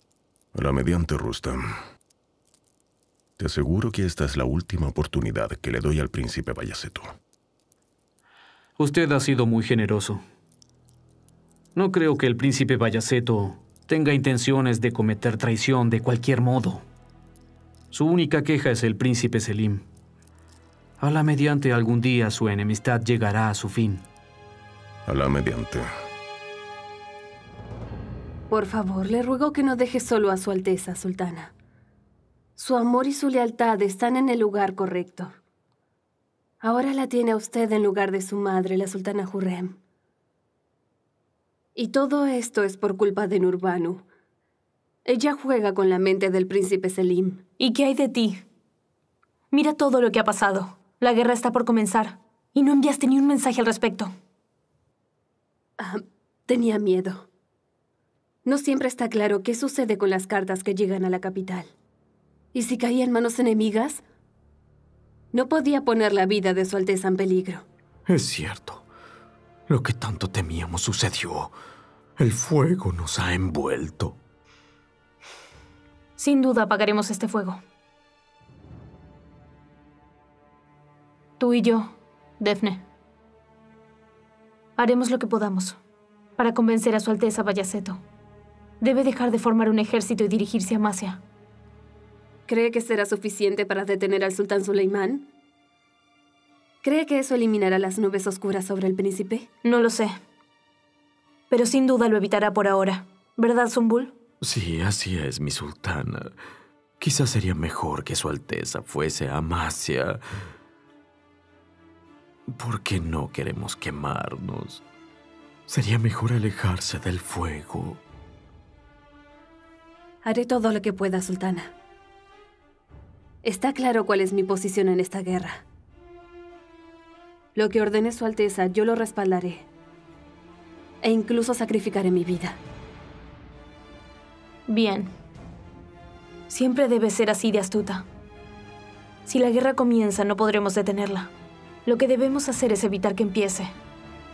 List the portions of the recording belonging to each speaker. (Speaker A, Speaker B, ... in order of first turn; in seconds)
Speaker A: 0.6-1.7, 3.4-7.1, 25.1-25.9
Speaker B: 8.8-10.2, 11.7-16.8, 17.9-19.8, 21.0-24.0
Speaker C: 28.5-31.5, 32.6-35.3, 36.6-39.8, 41.8-44.0, 45.0-47.4, 55.8-57.3, 58.4-61.7, 62.5-64.0, 65.3-67.6, 92.5-95.3, 96.8-99.5, 120.2-121.7, 123.4-125.6, 127.5-129.7, 131.0-132.6
Speaker D: 47.6-48.4, 49.5-54.1, 76.2-77.6, 81.4-82.8, 84.8-85.8, 86.4-88.0, 88.8-91.2, 99.6-100.1, 101.5-104.1, 134.7-135.1, 136.5-138.1, 139.3-141.3, 141.9-143.7
Speaker E: 68.1-68.8, 69.7-71.5, 72.2-74.2, 104.4-106.4, 107.0-110.2, 112.5-114.8, 115.7-118.0